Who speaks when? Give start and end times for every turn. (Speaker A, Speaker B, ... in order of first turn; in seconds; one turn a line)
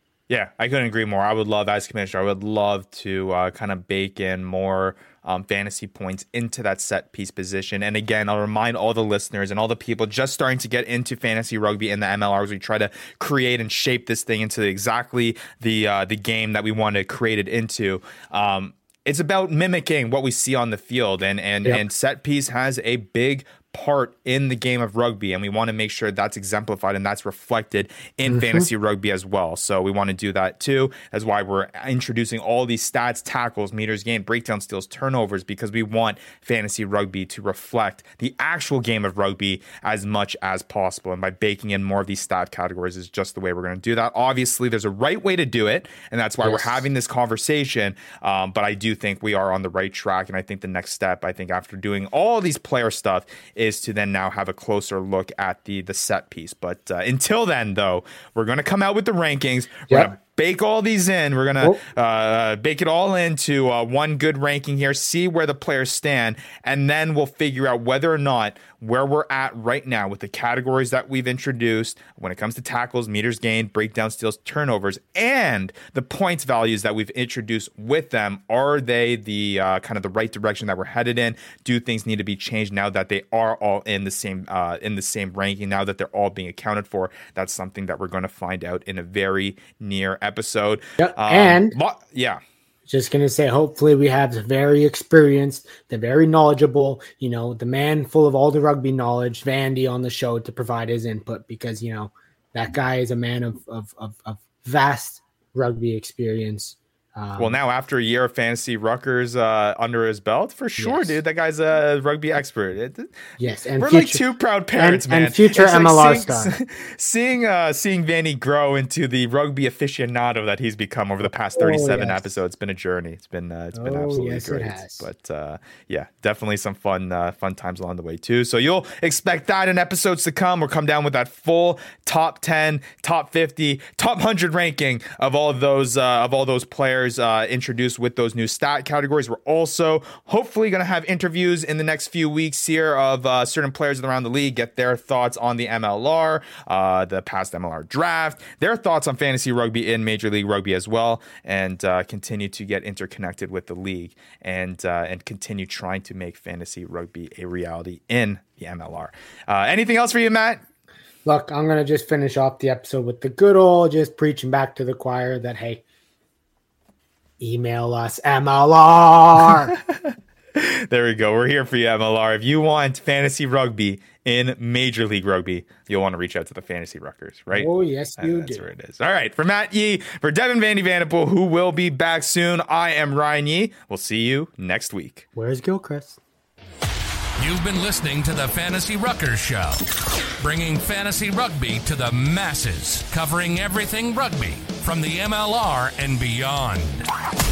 Speaker A: 0.3-92.4
Speaker B: 28.3-28.7
Speaker B: 46.4-46.8
Speaker B: 91.0-91.7
Speaker B: 92.9-107.5
Speaker A: 107.3-113.2
Speaker B: 110.8-111.2
Speaker B: 113.4-114.2
Speaker A: 113.8-160.6
Speaker B: 114.8-116.5
Speaker B: 121.2-122.3
Speaker B: 123.7-125.1
Speaker B: 161.2-165.8
Speaker B: 167.4-169.7
Speaker A: 169.7-185.2
Speaker B: 177.5-178.7
Speaker B: 185.3-186.2
Speaker C: 187.4-189.8
Speaker C: 190.4-197.1